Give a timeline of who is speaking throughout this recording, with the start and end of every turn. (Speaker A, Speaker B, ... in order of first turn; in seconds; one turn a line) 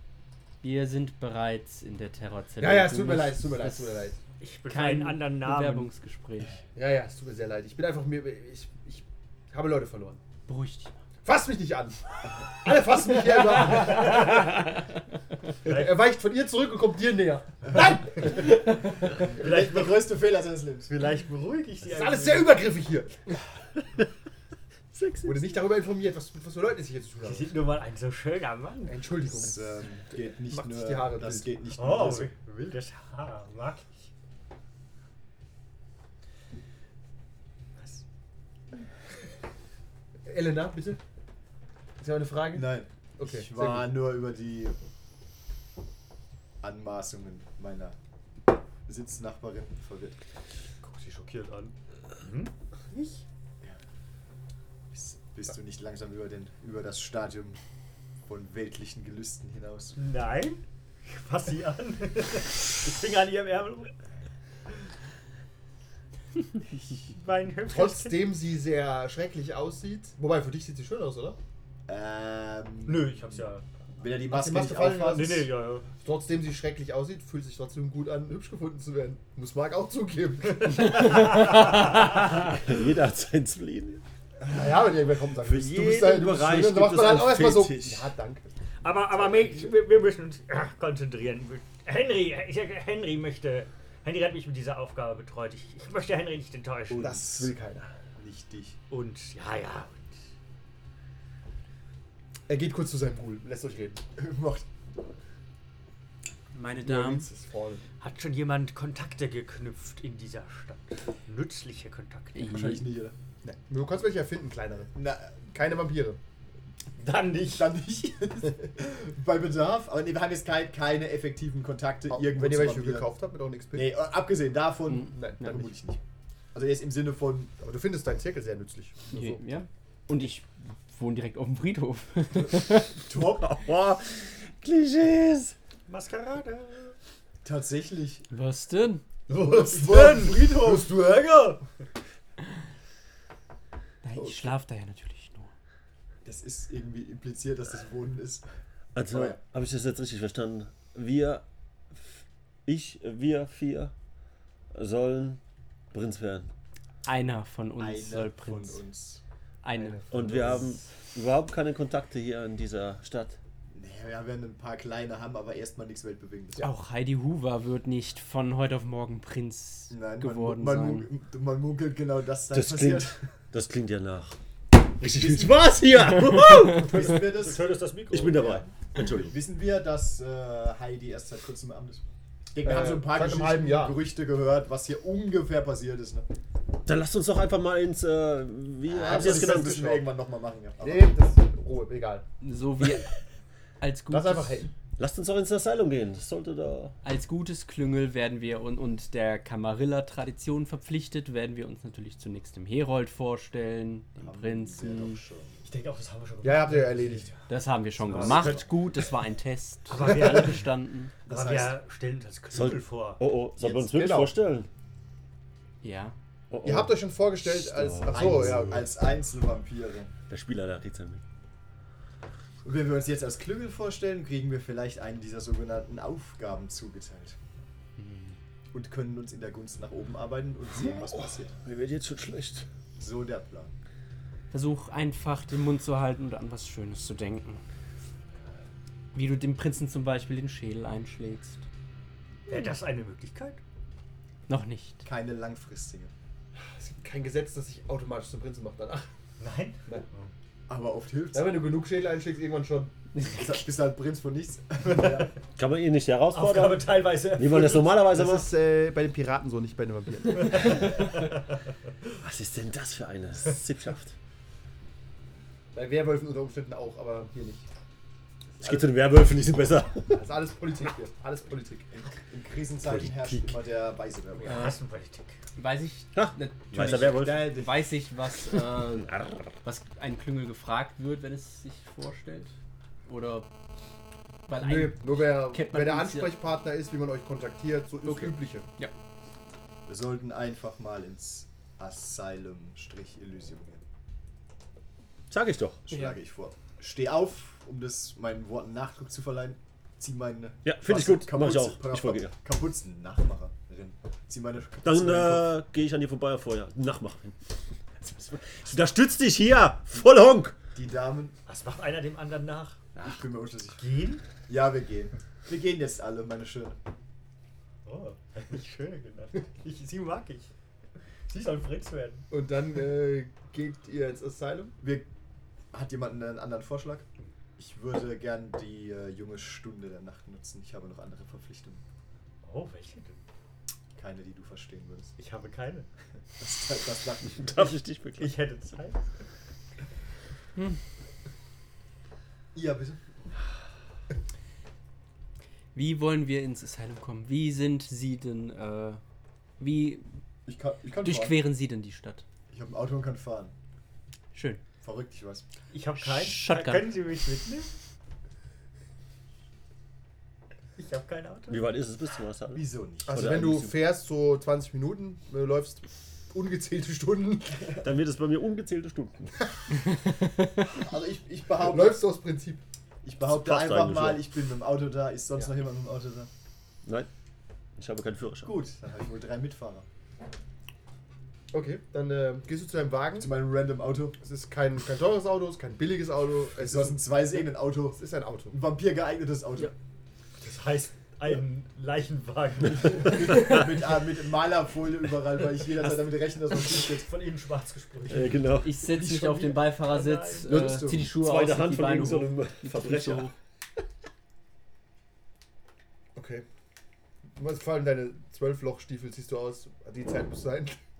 Speaker A: 0.6-3.9
Speaker B: 2.6-4.2
Speaker C: 4.4-5.9
Speaker A: 4.7-6.6
Speaker B: 6.7-10.2
Speaker A: 10.5-10.9
Speaker B: 11.2-14.5
Speaker B: 15.6-18.9
Speaker C: 15.7-15.9
Speaker C: 18.2-20.2
Speaker D: 18.7-20.9
Speaker C: 20.9-22.6
Speaker B: 21.9-23.2
Speaker B: 25.2-27.6
Speaker C: 27.2-29.0
Speaker B: 28.9-31.5
Speaker D: 29.4-32.3
Speaker C: 31.8-33.9
Speaker B: 40.2-41.0
Speaker B: 42.0-43.9
Speaker D: 42.5-44.8
Speaker D: 46.6-48.0
Speaker D: 48.9-50.2
Speaker C: 50.8-53.2
Speaker D: 54.9-57.6
Speaker D: 58.2-60.0
Speaker C: 60.0-63.9
Speaker C: 66.9-68.2
Speaker B: 67.7-71.4
Speaker D: 71.9-73.4
Speaker C: 72.8-73.7
Speaker D: 74.0-75.5
Speaker B: 74.1-75.5
Speaker C: 75.1-75.8
Speaker B: 76.0-81.3
Speaker C: 81.0-81.3
Speaker E: 81.4-84.0
Speaker B: 84.4-88.5
Speaker E: 85.4-88.1
Speaker C: 88.8-97.2
Speaker D: 96.9-97.5
Speaker B: 97.0-97.9
Speaker D: 98.2-98.8
Speaker C: 98.9-100.1
Speaker B: 102.5-104.0
Speaker D: 104.2-104.7
Speaker A: 106.5-107.3
Speaker B: 106.8-107.9
Speaker C: 108.0-112.5
Speaker A: 112.3-112.9
Speaker D: 112.4-113.1
Speaker B: 113.4-116.2
Speaker D: 114.9-115.4
Speaker C: 117.0-117.7
Speaker D: 117.5-123.1
Speaker B: 122.1-123.9
Speaker D: 123.7-126.0
Speaker A: 124.9-125.6
Speaker B: 125.0-125.7
Speaker D: 126.5-127.5
Speaker B: 127.6-129.4
Speaker A: 129.1-132.9
Speaker D: 133.1-133.5
Speaker E: 133.4-135.5
Speaker C: 135.9-136.9
Speaker D: 137.4-138.3
Speaker A: 138.3-139.0
Speaker C: 139.3-141.6
Speaker D: 139.4-140.9
Speaker A: 144.0-145.5
Speaker D: 144.2-144.5
Speaker D: 146.2-148.5
Speaker E: 148.9-153.9
Speaker D: 149.1-149.4
Speaker E: 154.7-155.4
Speaker E: 155.9-156.5
Speaker A: 157.0-158.8
Speaker D: 157.8-159.2
Speaker A: 159.6-160.0
Speaker B: 159.8-160.6
Speaker E: 160.1-163.4
Speaker D: 163.7-166.7
Speaker A: 166.6-171.1
Speaker D: 169.9-173.2
Speaker E: 172.5-177.2
Speaker D: 175.0-175.6
Speaker D: 176.8-177.7
Speaker C: 177.0-178.5
Speaker E: 178.1-179.3
Speaker D: 178.3-186.2
Speaker B: 182.6-184.0
Speaker E: 186.8-189.9
Speaker D: 188.9-191.1
Speaker B: 189.0-190.1
Speaker B: 190.8-192.2
Speaker A: 192.4-193.1
Speaker A: 193.8-194.7
Speaker B: 194.1-194.7
Speaker E: 195.0-196.9
Speaker A: 197.0-205.2
Speaker D: 204.2-205.6
Speaker C: 205.6-207.4
Speaker B: 206.4-207.3
Speaker A: 207.5-211.1
Speaker D: 208.1-208.7
Speaker C: 208.2-208.5
Speaker C: 209.9-210.7
Speaker C: 211.2-213.2
Speaker D: 211.3-211.8
Speaker E: 212.5-214.7
Speaker B: 213.6-214.3
Speaker A: 215.8-216.2
Speaker E: 216.5-218.9
Speaker B: 216.6-218.9
Speaker D: 218.1-220.1
Speaker E: 220.3-221.2
Speaker D: 222.6-227.4
Speaker D: 228.7-231.5
Speaker E: 230.8-232.7
Speaker D: 233.0-233.7
Speaker A: 234.5-237.6
Speaker A: 239.1-241.6
Speaker C: 242.5-243.6
Speaker A: 244.5-245.1
Speaker D: 245.0-246.1
Speaker B: 246.6-249.1
Speaker C: 249.4-250.3
Speaker D: 250.7-251.6
Speaker B: 251.3-253.6
Speaker D: 253.3-255.3
Speaker E: 255.6-258.5
Speaker C: 256.3-258.0
Speaker B: 258.1-260.9
Speaker C: 260.7-261.0
Speaker E: 262.2-264.1
Speaker B: 265.7-267.6
Speaker E: 268.6-270.2
Speaker B: 270.1-271.9
Speaker D: 271.9-274.7
Speaker E: 272.9-273.6
Speaker C: 274.4-275.4
Speaker A: 275.6-282.5
Speaker E: 276.1-277.6
Speaker D: 276.7-277.8
Speaker A: 283.1-283.5
Speaker A: 284.5-286.4
Speaker B: 284.5-288.7
Speaker A: 288.1-288.9
Speaker D: 289.9-293.8
Speaker E: 295.3-295.8
Speaker D: 295.8-305.6
Speaker A: 295.9-296.2
Speaker E: 300.6-302.3
Speaker E: 304.8-307.4
Speaker E: 308.0-310.6
Speaker D: 310.7-311.3
Speaker C: 311.4-312.9
Speaker D: 312.9-313.8
Speaker C: 313.8-314.2
Speaker D: 314.4-316.8
Speaker C: 317.8-320.5
Speaker C: 321.3-322.2
Speaker B: 322.3-324.7
Speaker D: 324.8-325.1
Speaker D: 325.7-327.0
Speaker D: 327.6-331.8
Speaker C: 332.4-333.2
Speaker D: 333.9-335.1
Speaker C: 335.2-335.9
Speaker D: 336.4-337.8
Speaker E: 337.3-338.3
Speaker C: 338.2-339.0
Speaker D: 342.5-343.0
Speaker A: 345.7-349.0
Speaker A: 349.6-350.0
Speaker D: 350.4-351.4
Speaker A: 350.9-352.2
Speaker D: 352.5-353.5
Speaker A: 354.3-354.6
Speaker D: 354.8-355.4
Speaker C: 355.7-357.7
Speaker A: 356.0-356.9
Speaker C: 360.8-361.7
Speaker E: 361.5-363.7
Speaker D: 362.5-363.3
Speaker B: 363.1-367.7
Speaker E: 367.8-369.4
Speaker D: 370.6-372.0
Speaker B: 371.5-372.6
Speaker D: 373.0-376.3
Speaker E: 373.2-374.3
Speaker E: 377.8-378.6
Speaker D: 378.4-379.9
Speaker B: 381.5-383.3
Speaker D: 383.2-384.1
Speaker B: 384.2-388.6
Speaker D: 386.6-389.7
Speaker C: 390.4-393.5
Speaker D: 393.0-397.1
Speaker C: 396.7-398.4
Speaker E: 398.1-398.8
Speaker A: 398.6-403.3
Speaker D: 398.9-399.7
Speaker C: 399.9-400.6
Speaker D: 400.4-401.1
Speaker E: 400.9-403.3
Speaker B: 406.1-406.4
Speaker B: 407.3-410.8